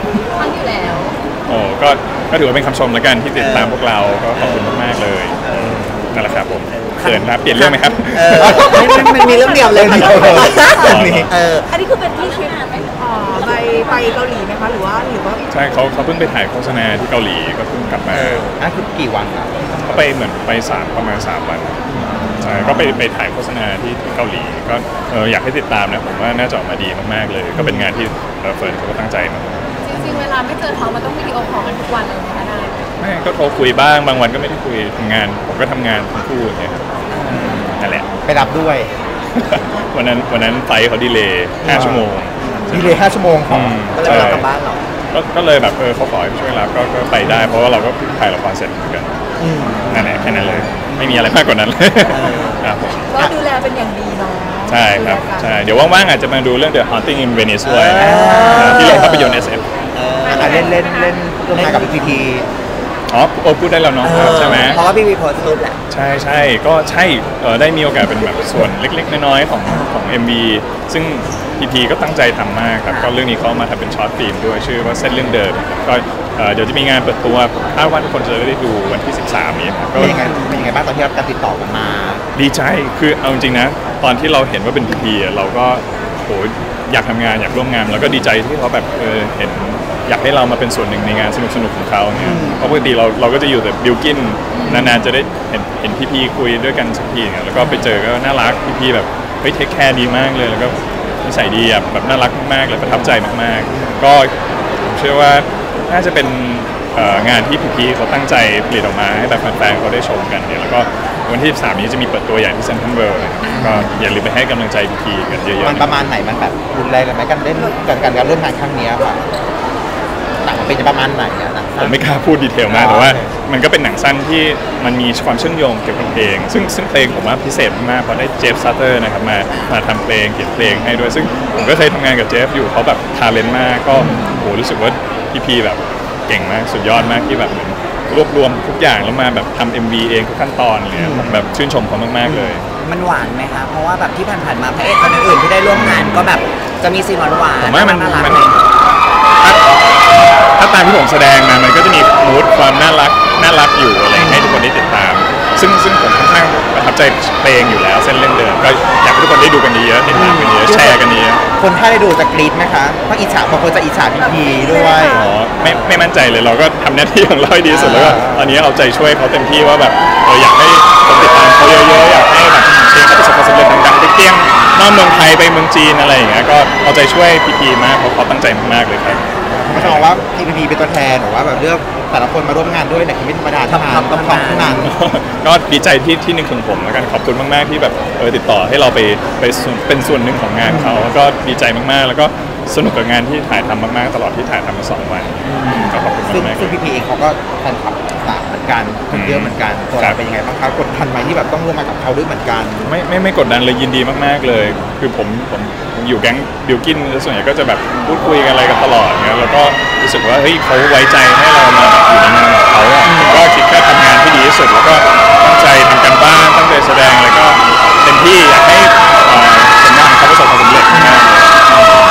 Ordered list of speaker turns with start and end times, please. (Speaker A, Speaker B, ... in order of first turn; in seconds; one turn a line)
Speaker A: 0.3-1.2
Speaker B: 1.5-5.4
Speaker C: 3.4-3.8
Speaker C: 4.3-4.8
Speaker C: 5.4-6.1
Speaker B: 6.1-8.8
Speaker C: 6.7-11.7
Speaker D: 8.4-8.9
Speaker E: 9.2-9.7
Speaker D: 9.7-11.3
Speaker E: 10.3-10.6
Speaker B: 10.7-11.3
Speaker E: 11.7-15.4
Speaker B: 15.5-18.4
Speaker C: 18.1-18.6
Speaker D: 18.6-19.8
Speaker B: 19.7-21.8
Speaker C: 21.9-22.2
Speaker B: 22.4-29.6
Speaker D: 22.5-22.9
Speaker A: 29.8-32.8
Speaker B: 33.0-38.1
Speaker C: 37.1-37.6
Speaker D: 38.2-38.9
Speaker B: 39.3-44.5
Speaker D: 41.6-42.1
Speaker C: 42.4-42.8
Speaker D: 42.7-44.4
Speaker C: 43.9-44.8
Speaker B: 45.1-49.1
Speaker D: 47.3-47.5
Speaker D: 49.4-50.7
Speaker C: 49.8-50.2
Speaker B: 49.9-53.1
Speaker C: 50.9-51.3
Speaker C: 52.1-52.7
Speaker E: 53.1-55.8
Speaker B: 54.7-59.6
Speaker C: 57.6-60.8
Speaker D: 58.0-59.1
Speaker A: 60.2-61.1
Speaker D: 60.3-62.5
Speaker C: 61.5-62.2
Speaker B: 63.1-64.8
Speaker C: 64.0-65.8
Speaker A: 64.2-65.0
Speaker B: 65.9-80.2
Speaker C: 69.6-69.9
Speaker C: 72.9-73.2
Speaker D: 79.9-82.2
Speaker C: 80.0-80.6
Speaker B: 82.3-116.1
Speaker C: 92.2-92.7
Speaker A: 94.5-94.9
Speaker C: 113.5-113.8
Speaker D: 113.6-113.9
Speaker D: 115.6-119.2
Speaker D: 120.4-122.0
Speaker B: 121.8-142.6
Speaker D: 122.7-123.3
Speaker D: 134.0-134.3
Speaker C: 134.0-134.4
Speaker C: 136.9-137.2
Speaker C: 140.9-141.4
Speaker C: 142.2-148.6
Speaker B: 145.7-146.3
Speaker B: 147.6-148.5
Speaker B: 149.4-149.7
Speaker B: 150.5-161.4
Speaker C: 154.1-154.6
Speaker C: 160.1-160.5
Speaker D: 160.1-161.0
Speaker D: 161.6-165.9
Speaker A: 164.2-165.1
Speaker E: 164.4-165.2
Speaker B: 165.1-180.1
Speaker D: 167.7-168.6
Speaker D: 179.5-184.9
Speaker C: 183.7-184.9
Speaker B: 184.8-196.8
Speaker C: 190.6-191.0
Speaker C: 195.4-196.0
Speaker D: 196.2-202.9
Speaker B: 199.1-200.2
Speaker B: 202.8-221.8
Speaker C: 213.1-213.4
Speaker C: 220.9-221.2